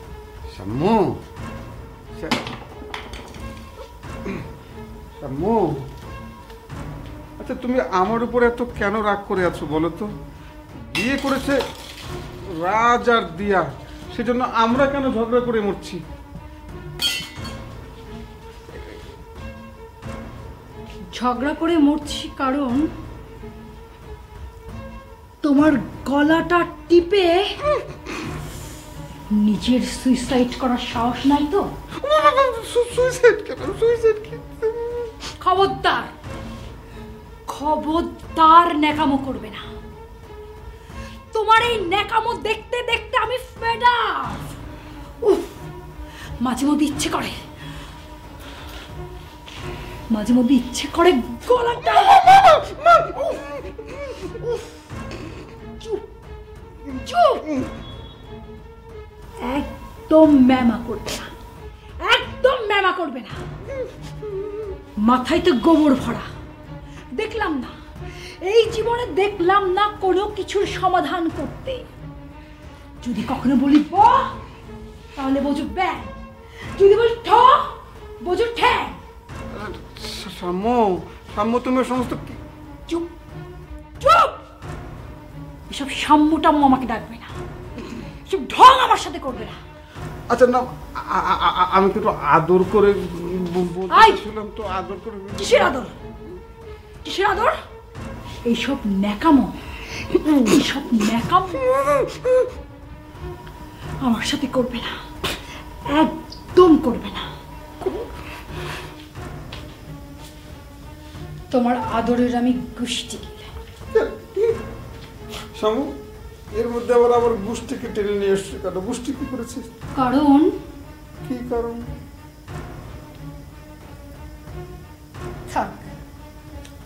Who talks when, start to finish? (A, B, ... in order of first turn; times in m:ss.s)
0:00.5-0:01.1 A
0:05.2-0:05.6 A
0:07.4-0:10.1 A
0:10.8-0:11.6 A
0:12.6-0:16.0 A
0:21.1-0:22.9 B
0:25.4-0:27.5 B
0:29.3-0:31.7 B
0:32.0-0:35.1 A
0:35.4-0:36.1 B
0:37.5-0:39.6 B
0:41.3-0:44.5 B
0:45.2-0:45.5 B
0:46.4-0:47.4 B
0:50.1-0:52.2 B
0:54.3-0:54.6 B
0:56.9-0:57.5 B
0:59.4-1:01.3 B
1:02.0-1:03.4 B
1:05.0-1:06.3 B
1:07.1-1:07.7 B
1:08.4-1:11.8 B
1:13.0-1:14.3 B
1:15.2-1:16.1 B
1:16.7-1:19.0 B
1:19.5-1:22.4 A
1:24.0-1:24.4 B
1:25.7-1:27.3 B
1:28.2-1:29.6 B
1:30.3-1:35.7 A
1:33.9-1:34.2 B
1:35.4-1:35.9 B
1:37.0-1:37.6 B
1:38.4-1:39.6 B
1:40.1-1:41.7 B
1:44.0-1:45.0 B
1:45.9-1:47.3 B
1:51.5-1:53.5 B
1:53.9-1:54.5 A
1:55.6-1:55.9 A
1:56.5-1:59.7 A
1:59.9-2:00.5 B
2:01.2-2:01.8 A
2:05.5-2:05.8 B